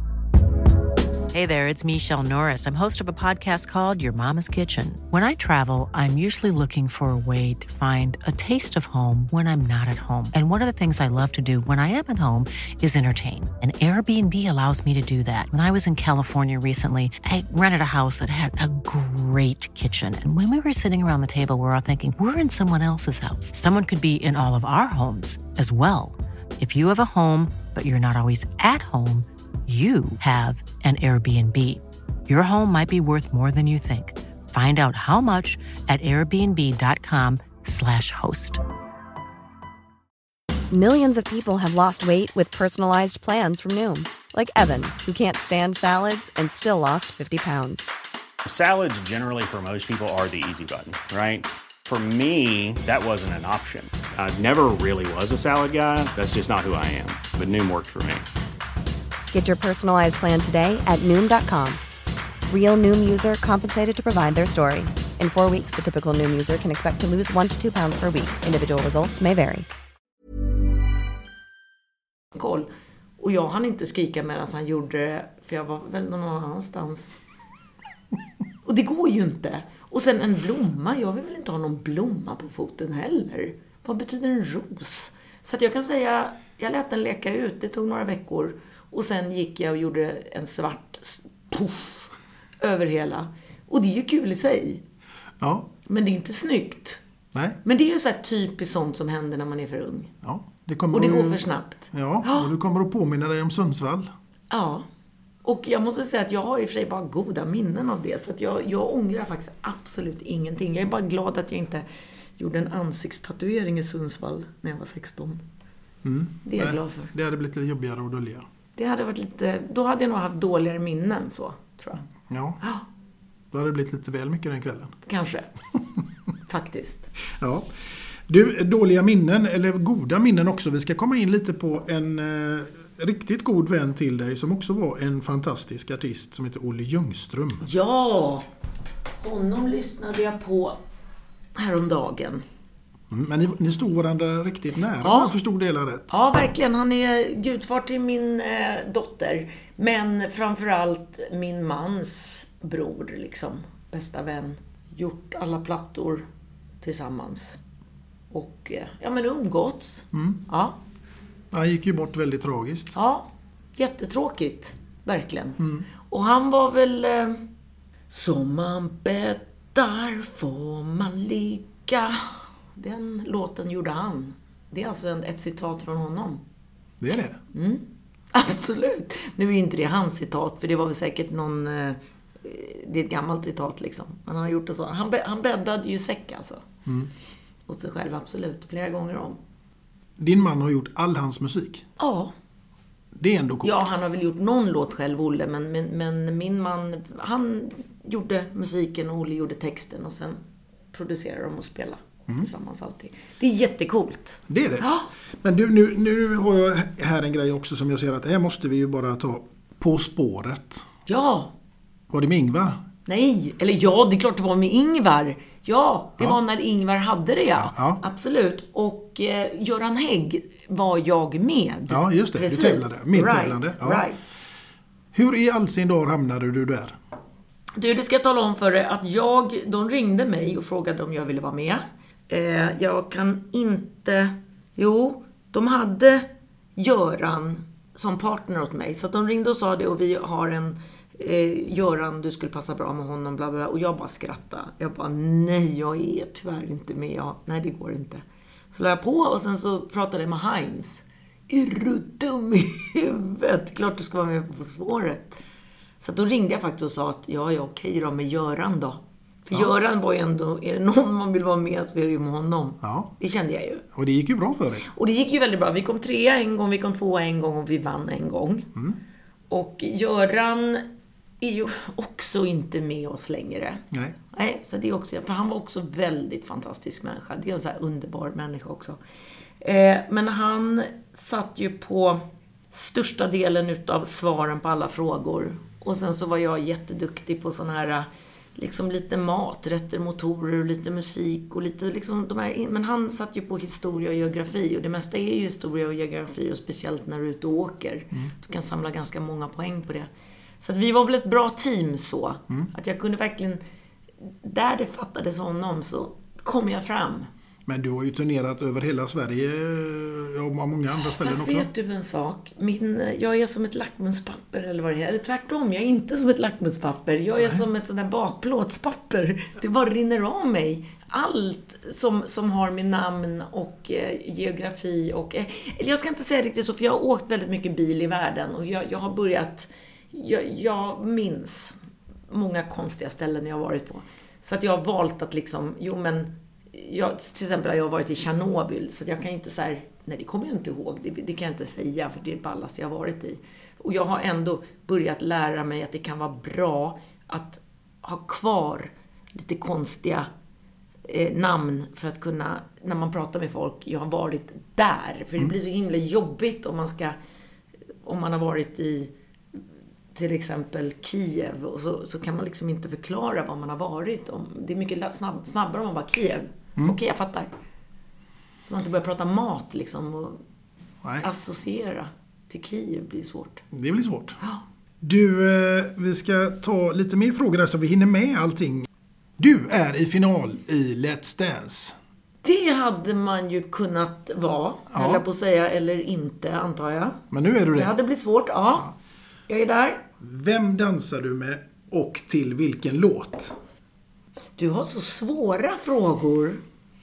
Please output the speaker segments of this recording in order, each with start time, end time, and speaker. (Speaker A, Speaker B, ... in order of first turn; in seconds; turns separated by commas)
Speaker A: 1.3-38.6, Speaker B: 40.7-47.9, Speaker C: 48.5-58.3, Speaker B: 59.3-61.8, Speaker B: 62.5-69.7, Speaker D: 72.3-72.7, Speaker D: 73.2-77.2, Speaker D: 78.7-94.8, Speaker E: 95.4-95.7, Speaker D: 95.9-97.0, Speaker E: 97.3-97.6, Speaker D: 97.6-100.1, Speaker E: 100.2-104.1, Speaker D: 100.9-102.5, Speaker D: 104.5-104.9, Speaker D: 105.4-111.8, Speaker D: 112.4-115.4, Speaker E: 116.0-118.5, Speaker D: 116.4-117.1, Speaker D: 118.8-122.0, Speaker E: 122.3-122.6, Speaker E: 123.5-124.9, Speaker D: 125.0-125.5, Speaker D: 126.5-127.1, Speaker E: 127.4-127.7, Speaker E: 128.3-137.7, Speaker D: 137.6-138.5, Speaker D: 139.2-140.8, Speaker D: 141.6-142.4, Speaker E: 143.1-146.1, Speaker D: 145.0-145.3, Speaker D: 146.1-156.3, Speaker D: 156.8-157.6, Speaker D: 158.3-160.8, Speaker E: 160.1-160.4, Speaker E: 161.5-163.0, Speaker D: 162.9-167.4, Speaker E: 165.6-165.9, Speaker D: 168.1-176.4, Speaker E: 177.0-177.4, Speaker D: 177.5-186.7, Speaker D: 187.7-189.4, Speaker E: 190.2-191.9, Speaker D: 192.0-192.3, Speaker E: 193.2-193.9, Speaker D: 193.6-200.4, Speaker D: 200.9-205.1, Speaker E: 204.5-204.9, Speaker E: 205.4-210.9, Speaker D: 211.1-211.5, Speaker E: 212.1-212.8, Speaker D: 213.1-224.2, Speaker E: 217.6-218.0, Speaker E: 221.9-224.1, Speaker E: 225.1-227.0, Speaker D: 227.8-255.4, Speaker D: 256.0-263.9, Speaker E: 262.8-263.1, Speaker E: 263.9-264.9, Speaker D: 264.9-268.7, Speaker D: 269.5-270.9, Speaker D: 271.4-279.0, Speaker D: 279.6-300.1, Speaker D: 300.6-303.6, Speaker D: 304.4-307.3, Speaker E: 307.7-311.7, Speaker D: 311.0-331.8, Speaker D: 332.3-350.3, Speaker D: 351.1-357.2, Speaker D: 358.0-359.1, Speaker D: 360.1-367.5, Speaker D: 368.6-370.4, Speaker E: 371.0-371.3, Speaker D: 371.2-373.6, Speaker E: 373.7-374.4, Speaker E: 375.0-382.0, Speaker D: 382.4-387.2, Speaker E: 384.9-385.2, Speaker E: 387.3-387.9, Speaker D: 387.7-388.9, Speaker D: 389.5-390.0, Speaker E: 390.2-393.6, Speaker D: 394.6-396.6